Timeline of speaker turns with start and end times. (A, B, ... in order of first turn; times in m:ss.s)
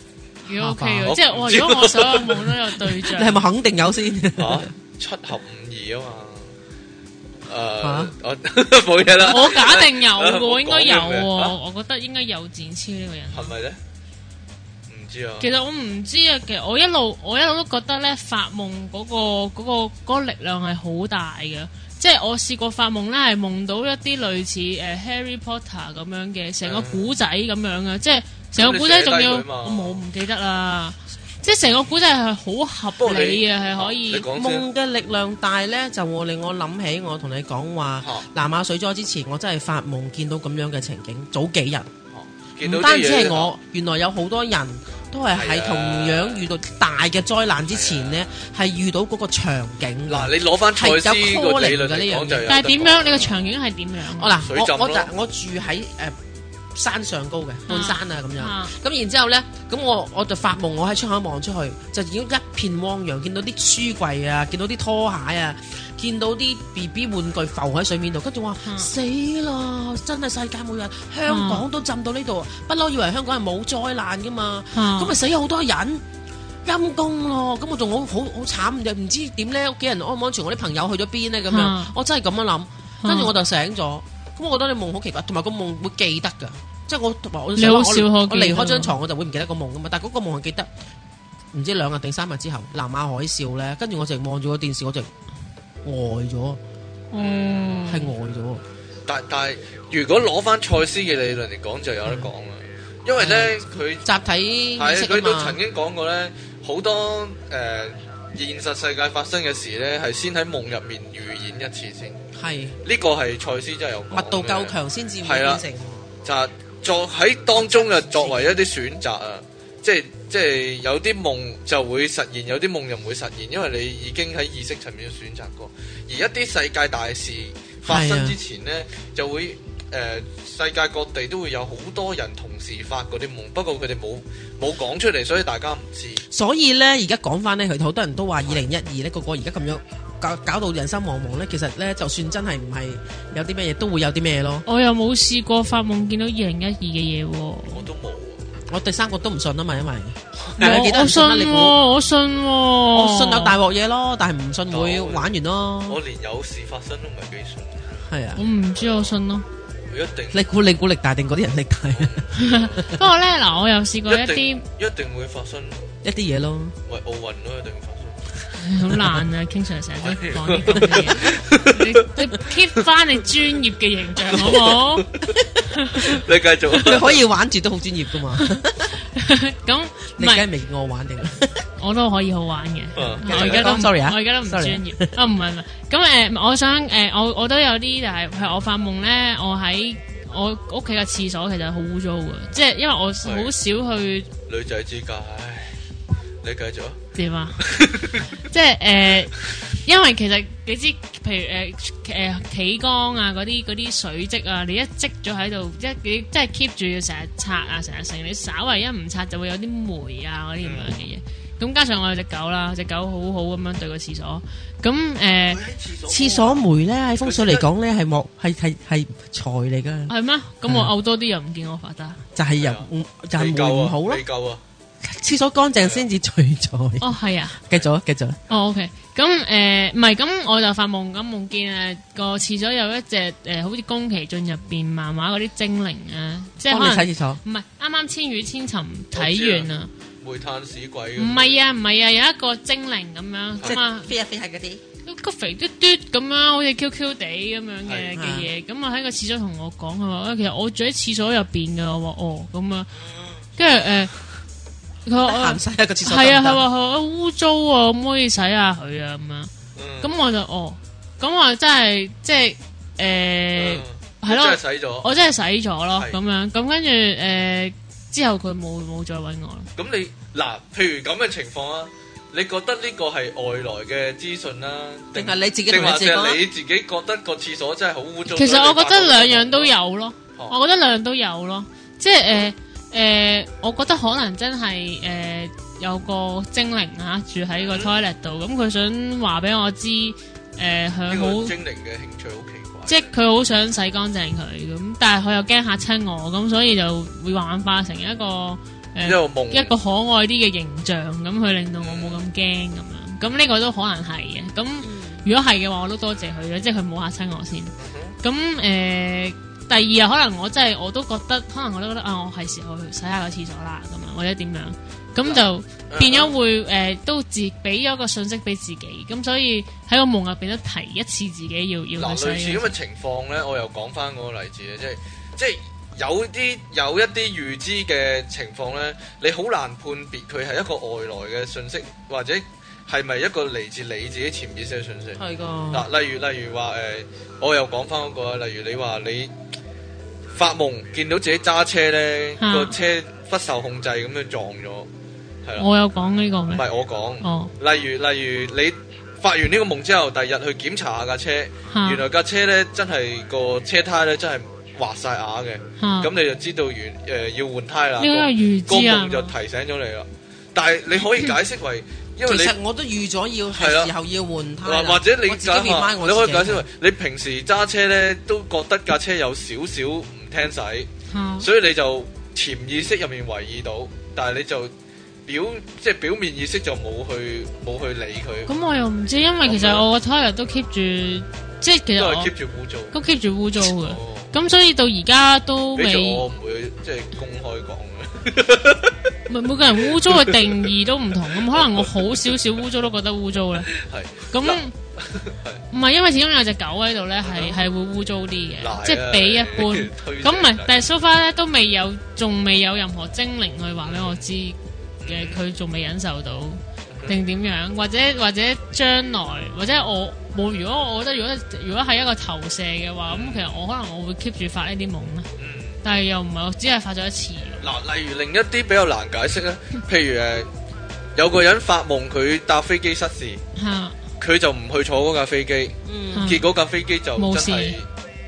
0:00.4-0:03.4 A
0:00.5-0:01.1 B
0:01.1-0:02.5 C
0:03.2-0:04.7 B
0:04.4-0:06.5 C
0:07.5-0:11.6 C
0:07.8-0:08.1 B
0:09.2-0:13.5 A
0:13.3-0:13.8 C
0:14.9-0:15.5 C
0:15.4-0:34.3 A
0:26.6-0:27.1 C
0:28.6-0:30.0 C
0:33.0-0:34.7 C
0:34.3-0:41.9 B
0:38.0-0:38.3 C
0:42.1-0:43.5 C
0:42.6-0:52.6 B
0:45.3-0:46.4 C
0:47.7-0:48.3 C
0:50.1-0:53.5 C
0:52.5-0:54.4 A
0:54.2-0:56.2 B
0:54.4-0:55.1 C
0:56.8-1:16.0 B
0:57.7-0:58.8 A
1:08.6-1:08.9 A
1:11.3-1:11.6 A
1:14.7-1:15.2 A
1:16.6-1:30.7 B
1:21.5-1:22.0 A
1:23.0-1:23.3 A
1:27.6-1:29.0 A
1:31.5-1:35.1 B
1:35.8-1:36.6 B
1:37.1-1:38.1 A
1:37.2-1:38.0 C
1:37.8-1:38.6 B
1:39.1-1:44.0 C
1:43.2-1:45.6 B
1:44.8-1:52.2 C
1:52.3-1:52.8 B
1:52.8-1:55.6 C
1:54.1-1:56.1 B
1:56.2-2:16.2 C
1:57.6-1:58.6 B
2:07.9-2:08.4 B
2:16.3-2:24.6 B
2:24.7-2:27.8 A
2:27.7-2:28.5 C
2:28.7-2:31.8 B
2:30.4-2:30.8 C
2:30.6-2:33.6 A
2:32.9-2:36.0 B
2:34.7-2:35.3 C
2:35.9-2:37.9 C
2:38.0-2:38.4 B
2:38.4-2:39.4 A
2:38.7-2:39.2 C
2:39.9-2:40.4 C
2:40.3-2:42.2 B
2:42.0-2:42.8 C
2:42.3-2:44.7 A
2:42.8-2:43.0 B
2:44.1-2:45.8 C
2:46.0-2:46.8 B
2:46.9-2:48.3 C
2:48.6-2:55.1 A
2:50.0-2:52.0 C
2:54.3-2:55.4 C
2:55.4-2:56.2 B
2:55.7-2:56.2 A
2:55.9-2:57.2 C
2:56.7-2:59.0 B
2:59.2-3:00.4 A
3:00.2-3:01.6 B
3:01.8-3:14.3 A
3:03.0-3:03.8 C
3:03.2-3:05.2 B
3:13.2-3:13.5 C
3:14.5-3:15.8 C
3:16.4-3:17.0 C
3:17.2-3:17.6 A
3:17.6-3:18.3 C
3:18.4-3:35.6 A
3:30.6-3:31.0 C
3:35.5-3:36.6 C
3:36.1-3:40.1 B
3:37.2-3:37.6 C
3:40.1-3:42.2 A
3:40.7-3:40.9 B
3:42.4-3:44.2 B
3:42.6-3:44.6 C
3:45.0-3:48.4 B
3:45.8-3:46.1 C
3:47.0-3:47.6 A
3:48.5-3:59.9 A
3:56.7-3:57.4 B
3:59.1-3:59.7 C
4:00.2-4:01.6 C
4:01.2-4:04.1 A
4:03.6-4:04.8 B
4:05.1-4:12.9 A
4:07.8-4:08.2 C
4:08.1-4:08.5 B
4:13.6-4:14.1 A
4:15.0-4:29.7 A
4:15.2-4:16.6 B
4:19.8-4:20.1 C
4:23.6-4:25.1 C
4:29.8-4:39.7 C
4:35.1-4:36.4 B
4:38.3-4:51.5 A
4:47.6-4:47.9 C
4:51.1-4:53.1 C
4:52.9-5:22.7 A
4:59.0-4:59.7 C
5:01.8-5:02.2 C
5:04.8-5:05.2 B
5:07.8-5:08.2 C
5:15.2-5:16.3 C
5:22.0-5:35.2 C
5:35.2-5:35.9 B
5:35.7-5:39.3 C
5:40.3-5:44.9 C
5:42.4-5:42.7 A
5:45.6-5:46.6 A
5:46.5-6:02.6 C
5:47.2-5:47.5 A
5:51.7-5:52.0 A
5:55.8-5:56.1 A
5:58.0-5:59.3 A
6:02.2-6:06.6 B
6:03.5-6:03.9 C
6:04.6-6:10.9 C
6:11.1-6:11.5 A
6:11.4-6:14.7 C
6:15.3-6:18.5 C
6:18.5-6:22.3 A
6:19.4-6:19.8 C
6:22.0-6:22.9 C
6:22.9-6:26.2 A
6:23.6-6:24.3 C
6:25.8-6:29.2 C
6:29.3-6:33.7 A
6:29.8-6:30.7 C
6:31.5-6:32.2 C
6:33.7-6:35.6 C
6:34.3-6:34.7 A
6:35.7-6:55.3 A
6:37.2-6:37.6 C
6:38.6-6:40.8 C
6:43.8-6:44.3 C
6:45.0-6:45.4 C
6:46.9-6:47.2 C
6:53.1-6:53.6 C
6:55.4-6:55.8 C
6:55.8-6:57.7 A
6:57.6-7:00.5 C
7:01.2-7:03.4 C
7:03.6-7:04.0 A
7:04.2-7:07.9 C
7:05.8-7:06.3 B
7:06.1-7:06.4 A
7:07.2-7:07.8 A